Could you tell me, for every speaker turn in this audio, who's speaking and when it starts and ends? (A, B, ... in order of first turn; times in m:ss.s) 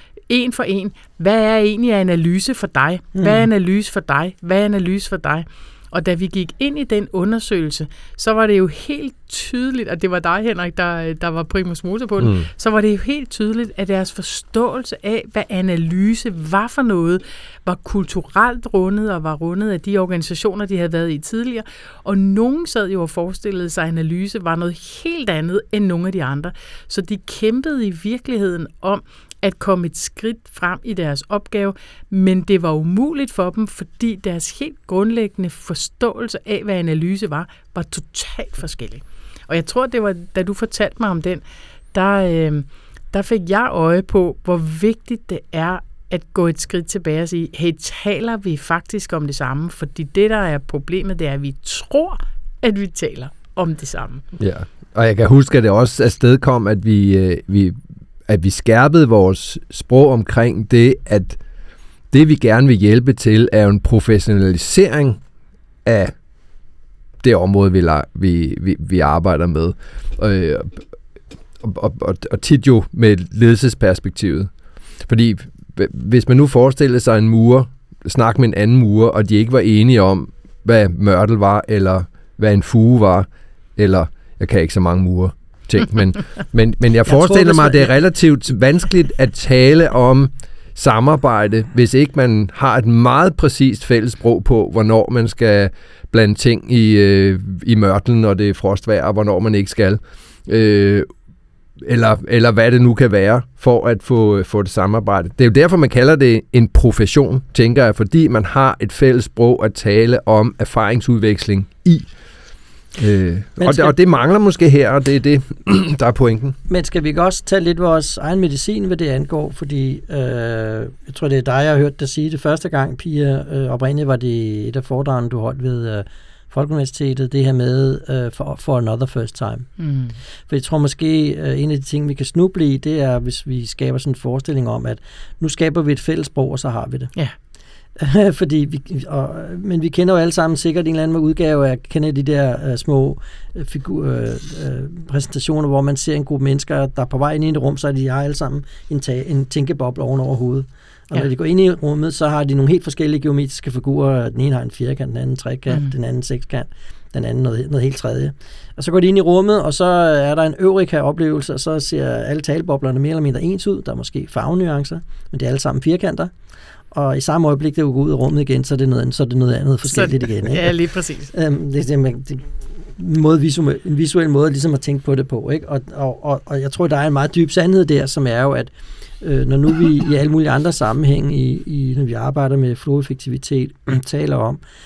0:00.3-0:54.2 A
0:03.1-0:03.5 B
0:12.2-0:12.5 C
0:54.4-0:57.8 C
0:58.3-1:01.4 C
1:02.1-1:05.2 C
1:05.8-1:06.1 C
1:07.2-1:10.8 C
1:11.6-1:14.5 C
1:15.0-1:41.1 C
1:27.0-1:27.9 B
1:41.8-1:52.1 C
1:53.0-1:56.6 C
1:53.6-1:53.9 B
1:56.7-2:09.7 B
2:09.8-2:10.2 A
2:10.5-2:17.1 B
2:18.0-2:46.3 B
2:46.9-2:50.8 B
2:49.8-2:51.3 A
2:51.3-3:04.6 B